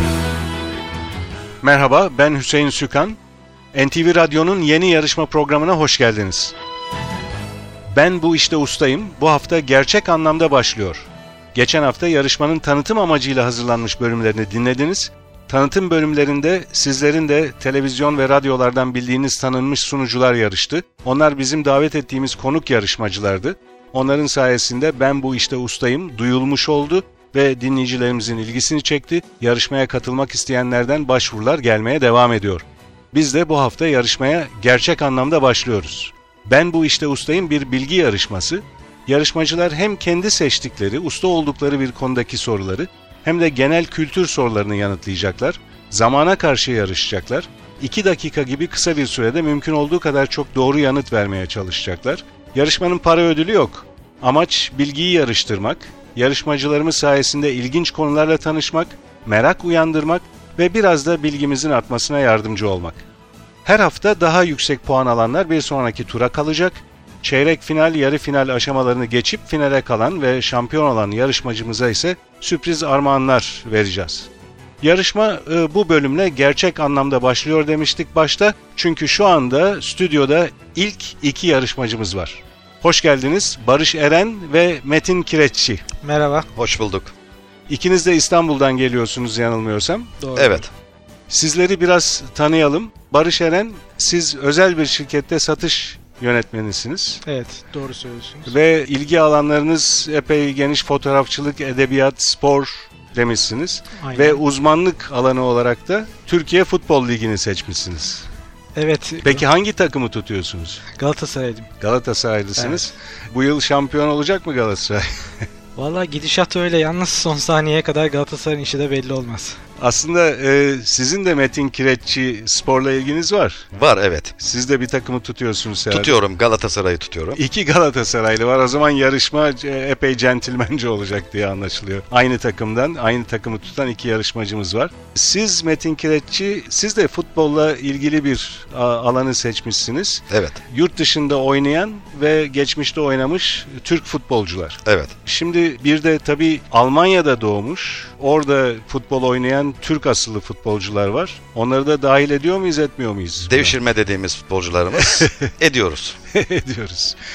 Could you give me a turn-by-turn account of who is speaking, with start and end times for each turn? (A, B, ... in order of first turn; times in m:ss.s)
0:01.6-0:03.2 A
0:03.7-0:06.5 A
0:07.9-1:03.0 A
1:03.6-1:14.3 A
1:14.8-1:25.8 A
1:26.0-1:26.5 B
1:26.6-1:27.1 C
1:27.7-1:30.1 A
1:30.2-1:30.6 B
1:30.4-1:30.7 C
1:31.3-1:37.2 A
1:37.2-1:38.5 B
1:38.5-1:48.2 A
1:44.0-1:44.4 B
1:48.7-1:49.4 B
1:49.2-1:50.8 A
1:50.9-1:51.7 B
1:51.8-1:55.4 A
1:52.6-1:52.9 B
1:55.8-1:59.6 B
1:59.8-2:03.7 A
2:03.7-2:04.4 C
2:04.4-2:06.2 A
2:05.9-2:07.4 C
2:07.3-2:33.8 A
2:20.3-2:20.6 C
2:24.8-2:25.1 C
2:33.5-2:36.2 C
2:35.0-2:35.5 A
2:36.3-2:37.2 A